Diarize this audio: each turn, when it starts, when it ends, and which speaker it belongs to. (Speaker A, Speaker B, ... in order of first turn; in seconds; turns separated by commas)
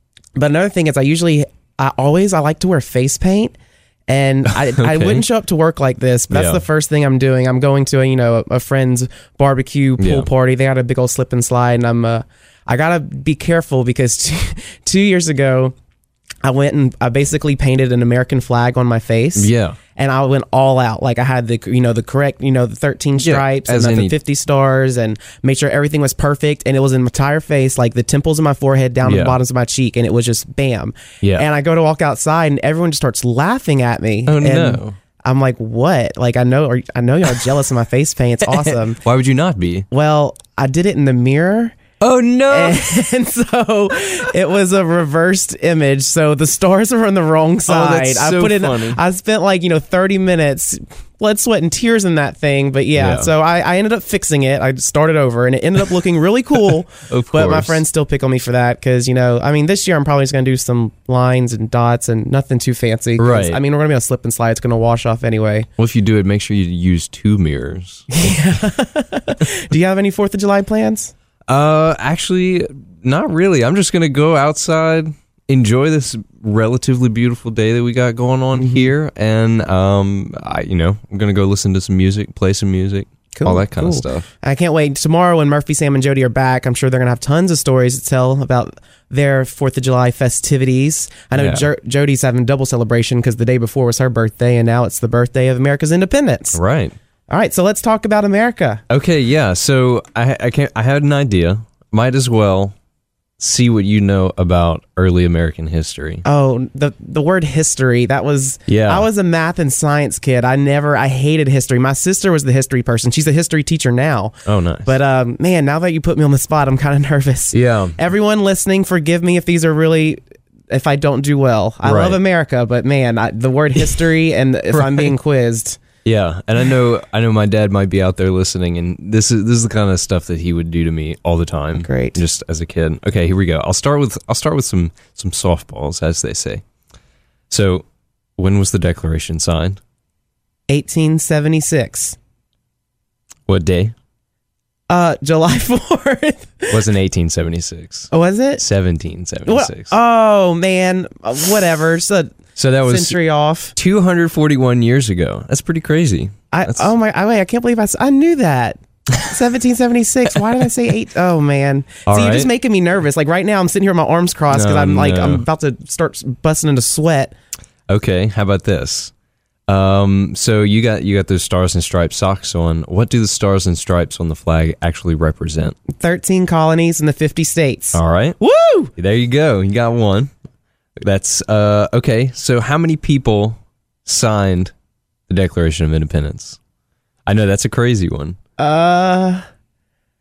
Speaker A: 0.3-3.5, Speaker A: 4.1-15.7, Speaker B: 4.5-5.2, Speaker B: 6.3-6.6, Speaker B: 10.0-10.3, Speaker A: 16.4-39.0, Speaker B: 19.4-19.8, Speaker B: 23.2-24.1, Speaker B: 29.0-29.4, Speaker B: 34.3-35.0, Speaker B: 39.0-39.9, Speaker A: 39.9-41.8, Speaker B: 42.0-43.0, Speaker A: 42.5-65.7, Speaker B: 47.7-49.0, Speaker B: 52.9-53.3, Speaker B: 57.1-57.8, Speaker B: 63.2-63.6, Speaker B: 65.8-68.1, Speaker A: 68.1-71.1, Speaker B: 71.5-84.3, Speaker A: 78.5-78.9, Speaker A: 83.3-96.6, Speaker B: 91.3-91.7, Speaker B: 96.5-97.0, Speaker A: 97.3-98.8, Speaker B: 98.9-102.7, Speaker B: 103.4-106.2, Speaker A: 106.2-125.8, Speaker B: 108.7-109.0, Speaker B: 114.5-114.9, Speaker B: 117.5-117.9, Speaker B: 121.8-122.2, Speaker B: 124.8-125.1, Speaker B: 126.0-136.6, Speaker A: 131.8-132.2, Speaker B: 137.5-137.8, Speaker B: 138.4-139.8, Speaker A: 140.7-142.2, Speaker B: 143.5-143.9, Speaker A: 144.9-146.8, Speaker B: 146.7-149.9, Speaker A: 148.1-148.6, Speaker A: 149.4-152.3, Speaker B: 152.6-153.2, Speaker A: 152.8-153.7, Speaker B: 153.8-156.9, Speaker A: 156.5-167.3, Speaker B: 162.1-162.5, Speaker B: 164.5-165.4, Speaker B: 167.9-169.1, Speaker B: 169.7-175.8, Speaker A: 175.9-178.9, Speaker B: 177.9-178.4, Speaker B: 178.9-180.3, Speaker B: 181.0-184.7, Speaker B: 185.3-186.6, Speaker B: 187.2-188.4, Speaker A: 188.6-189.4